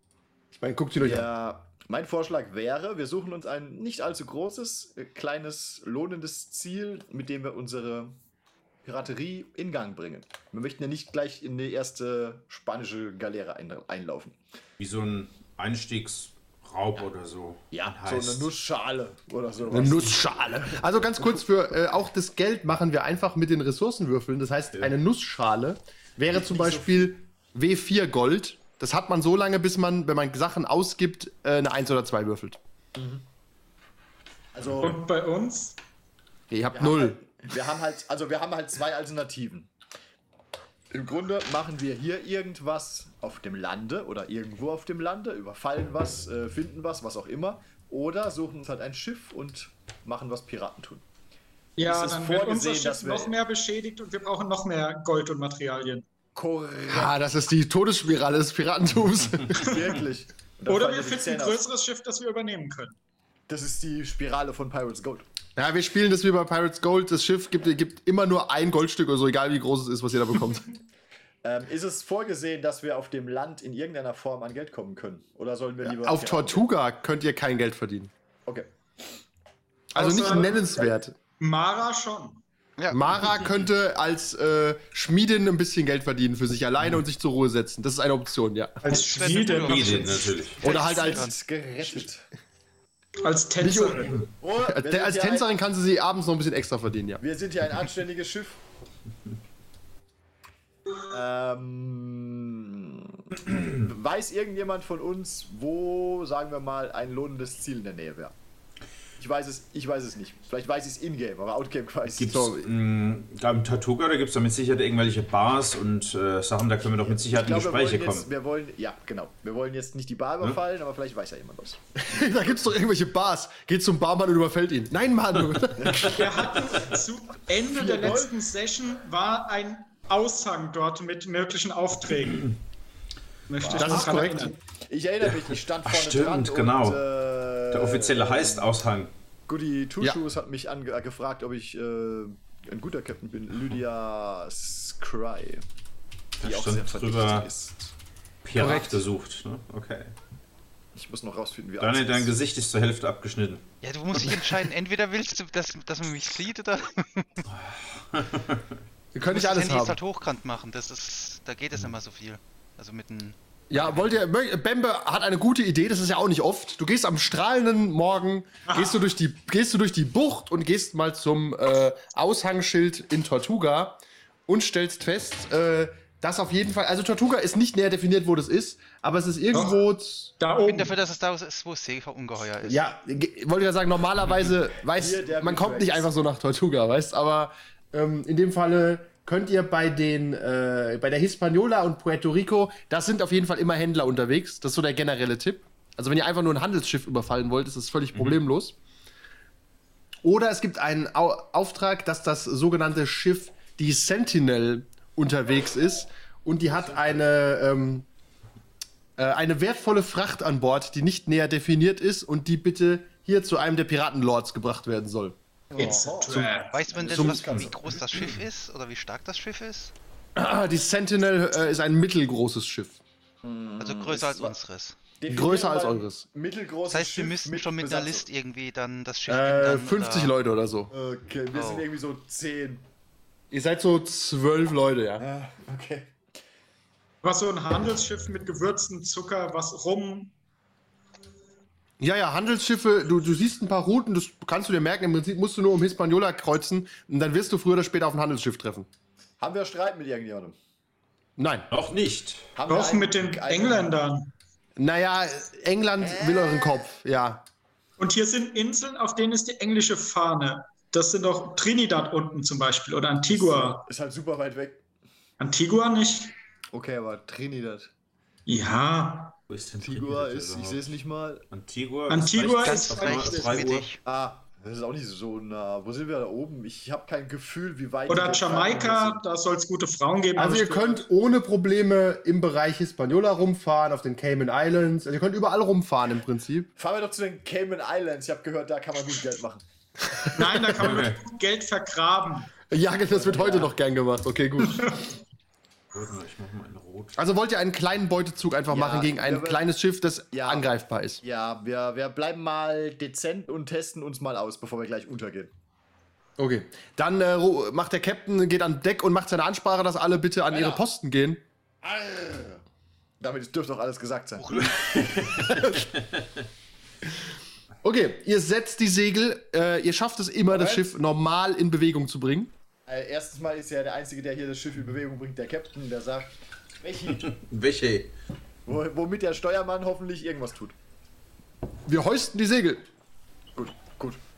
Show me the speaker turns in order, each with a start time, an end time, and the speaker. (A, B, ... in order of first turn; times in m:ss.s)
0:00.5-0:01.3 A
0:01.0-0:08.2 B
0:08.8-0:14.4 B
0:14.8-0:18.5 C
0:17.7-0:21.4 B
0:19.7-0:32.6 A
0:26.3-0:27.2 B
0:33.0-0:33.2 B
0:34.5-0:35.0 B
0:34.6-0:34.9 C
0:34.8-0:35.8 D
0:36.5-0:37.2 A
0:36.7-0:39.7 B
0:40.9-0:51.0 B
0:51.8-0:56.0 D
0:51.8-0:53.3 B
0:56.3-0:57.1 B
0:56.9-0:59.8 A
0:59.6-1:01.6 B
1:00.7-1:03.0 D
1:03.5-1:05.3 B
1:05.6-1:10.7 A
1:11.4-1:16.6 B
1:15.8-1:18.1 A
1:18.4-1:18.7 B
1:19.9-1:21.2 A
1:20.0-1:20.6 D
1:20.0-1:20.9 B
1:21.4-1:22.4 D
1:22.8-1:23.4 E
1:22.9-1:28.9 A
1:28.8-1:30.3 D
1:28.9-1:31.3 E
1:29.6-1:30.6 C
1:30.6-1:31.3 A
1:30.6-1:32.2 B
1:33.2-1:34.2 D
1:33.6-1:37.2 A
1:34.4-1:35.5 B
1:37.2-1:38.6 B
1:41.1-1:48.3 B
1:49.2-1:52.4 B
1:52.2-1:58.3 C
1:52.2-1:52.7 A
1:57.0-2:01.8 B
2:02.0-2:06.2 A
2:05.8-2:06.3 B
2:06.1-2:12.5 D
2:07.6-2:08.3 B
2:13.5-2:14.6 D
2:13.6-2:18.7 B
2:13.8-2:14.5 A
2:15.8-2:17.0 C
2:17.7-2:19.1 C
2:19.5-2:25.6 B
2:26.4-2:27.5 C
2:26.4-2:27.9 B
2:28.4-2:30.1 C
2:28.6-2:29.0 A
2:30.9-2:32.3 B
2:31.8-2:33.6 C
2:33.8-2:37.4 E
2:37.5-2:38.6 C
2:39.1-2:40.0 A
2:39.3-2:43.4 E
2:43.7-3:00.3 A
3:00.4-3:00.9 D
3:00.6-3:02.8 E
3:02.6-3:18.8 A
3:05.0-3:06.1 B
3:20.2-3:28.1 A
3:29.2-3:35.4 A
3:35.7-3:38.3 B
3:35.7-3:36.8 D
3:36.6-3:39.9 E
3:37.1-3:37.7 A
3:40.4-3:43.0 A
3:43.4-3:44.6 B
3:43.8-3:45.0 E
3:45.2-3:48.3 B
3:45.3-3:46.2 A
3:46.9-3:50.4 E
3:49.3-3:50.9 A
3:50.9-3:52.9 B
3:51.5-3:51.8 E
3:53.5-3:55.2 A
3:55.2-3:56.1 B
3:57.2-4:00.3 D
4:02.0-4:08.9 A
4:09.4-4:10.6 B
4:11.4-4:11.7 A
4:11.7-4:12.5 C
4:12.6-4:13.9 B
4:12.7-4:14.3 D
4:14.8-4:17.4 A
4:16.0-4:16.8 B
4:18.0-4:23.8 D
4:23.3-4:24.8 B
4:25.4-4:26.3 D
4:26.7-4:27.9 B
4:28.5-4:29.3 D
4:29.5-4:31.0 C
4:29.8-4:31.4 B
4:31.5-4:33.9 C
4:32.1-4:33.6 D
4:32.6-4:34.0 E
4:34.0-4:39.2 B
4:38.1-4:41.0 D
4:40.4-4:46.7 A
4:46.8-4:49.6 B
4:50.1-4:50.5 A
4:50.3-4:52.5 D
4:50.8-4:51.2 C
4:52.7-4:55.0 A
4:53.1-4:53.7 B
4:55.9-4:57.2 C
4:57.2-5:01.2 A
4:58.7-4:59.6 B
5:00.3-5:00.7 B
5:01.2-5:05.5 B
5:06.4-5:11.4 A
5:10.5-5:10.8 B
5:11.8-5:12.6 B
5:13.2-5:14.9 B
5:14.6-5:16.2 C
5:15.5-5:15.8 A
5:17.8-5:22.5 A
5:20.5-5:20.9 B
5:22.9-5:27.3 B
5:27.1-5:28.1 C
5:28.6-5:30.7 B
5:31.9-5:32.9 A
5:33.6-5:34.2 B